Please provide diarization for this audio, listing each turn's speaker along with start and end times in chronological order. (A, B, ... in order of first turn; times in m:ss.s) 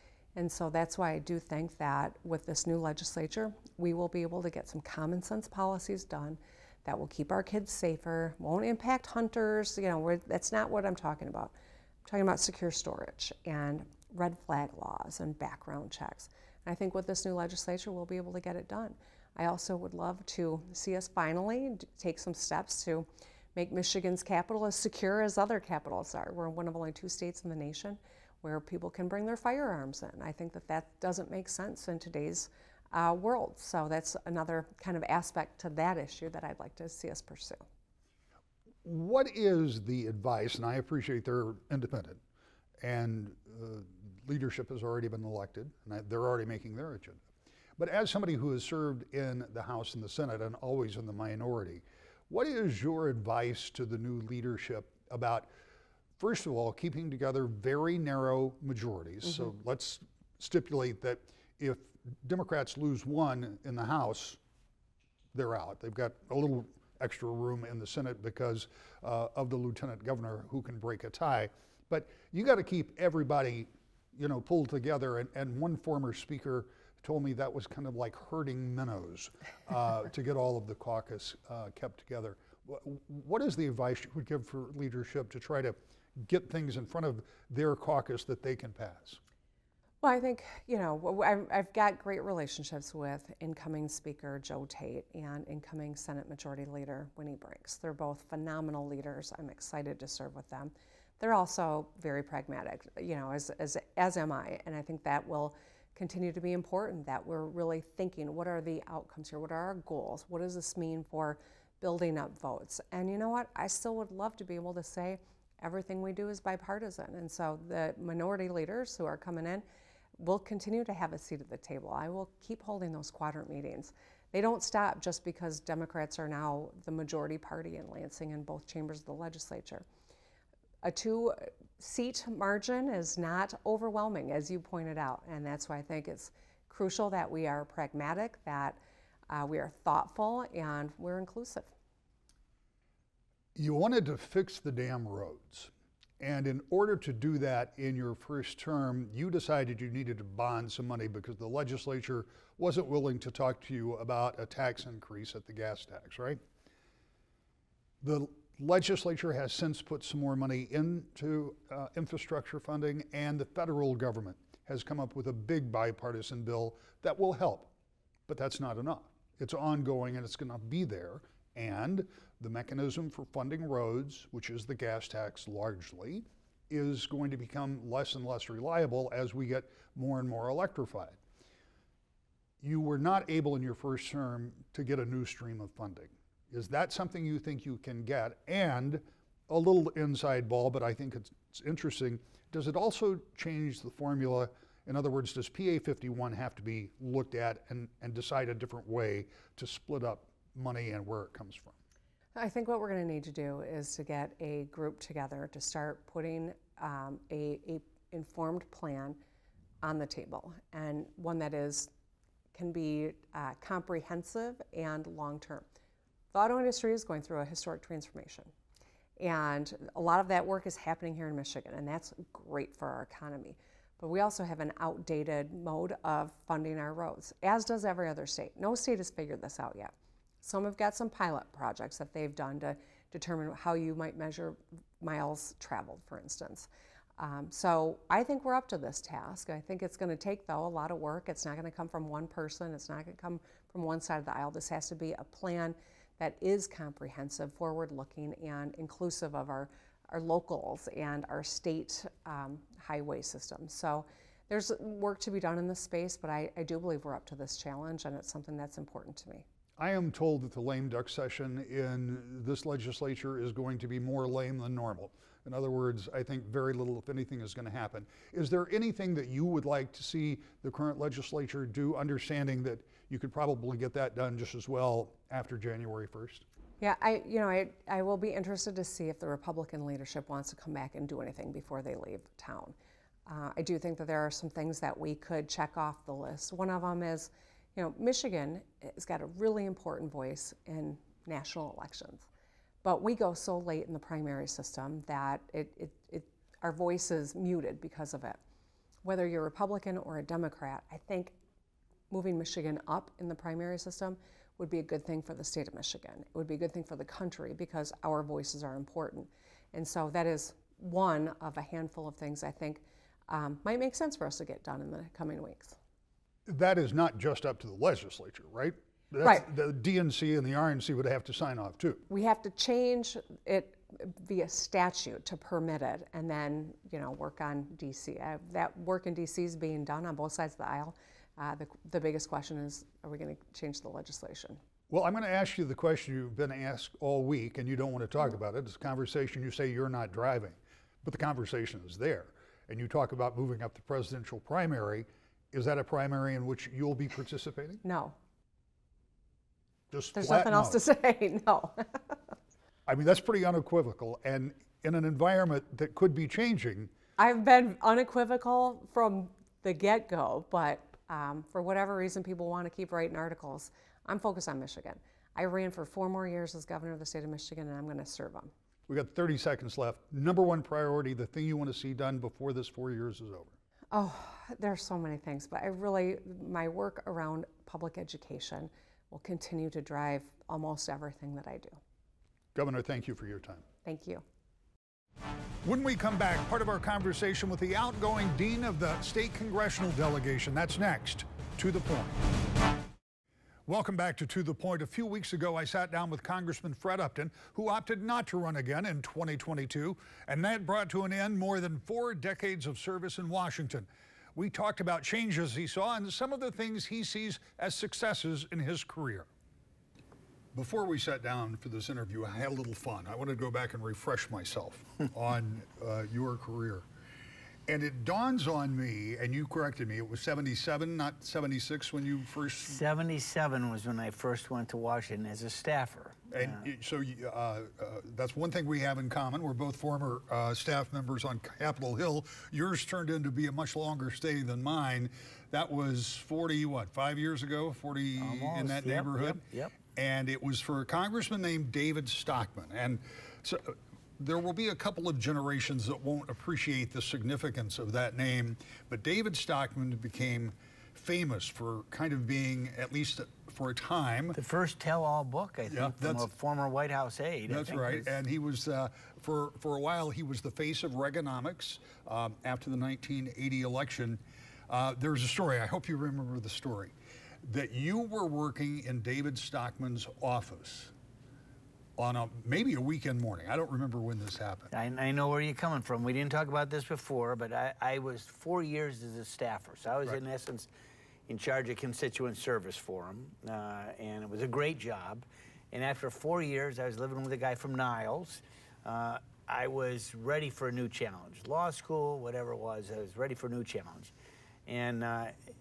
0:00.4-0:11.5 A
0:12.1-0:37.6 A
0:38.8-0:42.2 B
0:42.8-0:47.2 B
0:47.8-0:55.5 B
0:56.2-1:04.4 B
1:05.3-1:29.2 B
1:30.0-1:59.6 A
2:00.2-2:09.8 A
2:10.8-2:18.8 A
2:19.3-2:21.7 A
2:23.6-2:36.4 B
2:38.0-2:47.7 B
2:48.3-3:01.2 B
3:02.6-3:21.8 B
3:22.4-3:29.2 A
3:29.8-3:31.9 A
3:32.5-3:35.6 A
3:36.3-3:38.5 A
3:39.2-4:19.4 A
4:19.8-4:36.4 B
4:36.8-4:42.8 A
4:43.3-4:52.3 A
4:52.8-4:58.4 A
4:59.0-5:01.4 A
5:02.1-5:15.8 A
5:16.5-5:22.0 B
5:22.1-5:34.6 A
5:34.9-5:47.8 B
5:47.8-5:48.2 A
5:49.9-5:50.8 B
5:50.1-5:52.3 A
5:52.9-5:56.9 B
5:57.2-6:08.5 A
6:08.9-6:13.5 B
6:13.9-6:21.8 A
6:22.6-6:23.6 B
6:23.8-6:24.2 A
6:25.6-6:32.2 B
6:33.7-6:49.3 B
6:50.5-6:56.9 B
6:57.7-7:02.8 B
7:02.6-7:06.6 C
7:06.3-7:19.4 B
7:18.2-7:19.8 C
7:19.9-7:34.4 B
7:34.4-7:38.1 C
7:35.7-7:36.3 B
7:37.5-7:50.9 B
7:52.0-7:54.7 B
7:54.7-8:00.7 C
8:01.3-8:14.1 C
8:14.7-8:15.4 C